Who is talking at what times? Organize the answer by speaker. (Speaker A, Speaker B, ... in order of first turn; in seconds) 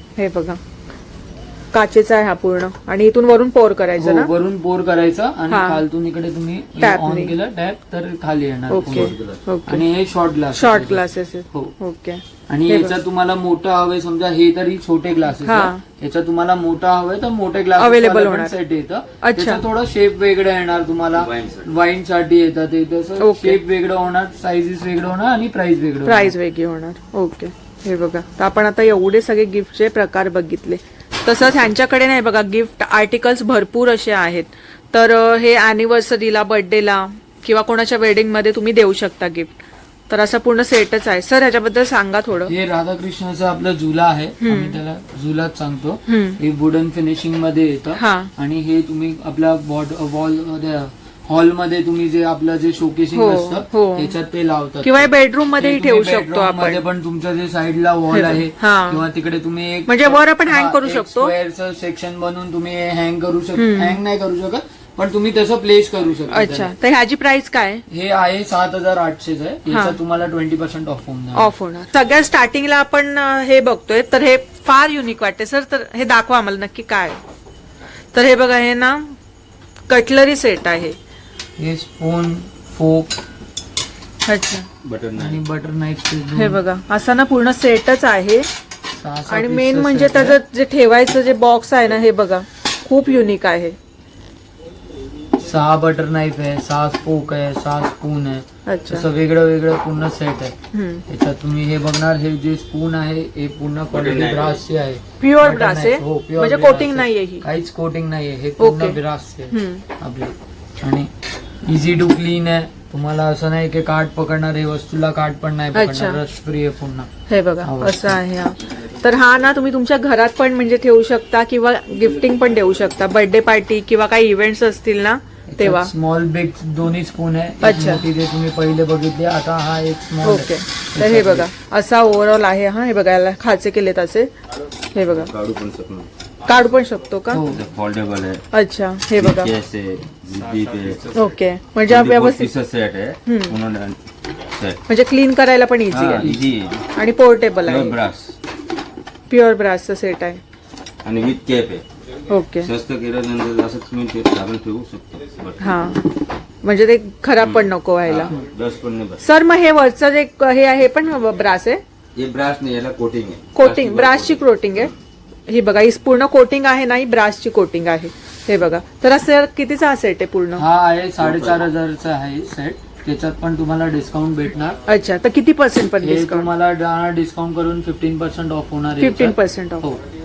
Speaker A: 0.2-0.6, 1.7-4.3, 5.5-5.8, 6.8-7.3, 8.7-9.8, 10.5-12.9, 15.4-15.8, 17.8-18.5, 19.2-19.6, 23.2-23.6, 26.1-39.6, 40.1-42.5, 44.4-44.8, 46.1-46.4, 48.0-48.3, 53.1-54.1, 54.8-56.8, 58.1-59.0, 59.9-61.3, 63.6-64.0, 66.3-67.8, 69.7-70.0, 71.3-77.2, 78.1-79.2, 79.9-81.0, 84.3-84.7, 86.3-88.5, 89.3-93.8, 98.7-99.0, 100.7-101.0, 105.2-107.5, 108.6-109.0, 109.5-109.8, 115.7-116.2, 117.3-125.9, 127.6-128.0, 130.2-134.3, 134.9-135.3, 136.5-137.4, 138.5-139.5, 141.1-142.5, 143.3-143.6, 144.9-146.4, 146.9-148.0, 149.3-150.4, 152.3-152.7, 155.6-156.1, 156.6-158.3, 159.2-161.8, 163.6-164.9, 165.5-170.7, 174.9-176.5, 179.0-179.9
Speaker B: 4.0-11.8, 12.5-26.4, 42.5-66.7, 67.9-71.5, 81.6-83.1, 85.2-86.6, 89.0-90.4, 95.4-100.5, 101.1-111.1, 111.7-117.1, 117.6-118.2, 125.5-131.5, 137.3-137.6, 170.6-174.8, 176.0-180.0
Speaker C: 8.8-9.4, 21.3-21.6, 84.8-85.4, 103.9-104.6, 135.1-136.1, 137.5-138.4, 139.1-141.2, 141.9-144.8, 145.9-146.8, 147.6-148.3, 151.0-151.8, 152.5-156.0, 157.4-159.2, 162.2-164.9, 171.2-171.6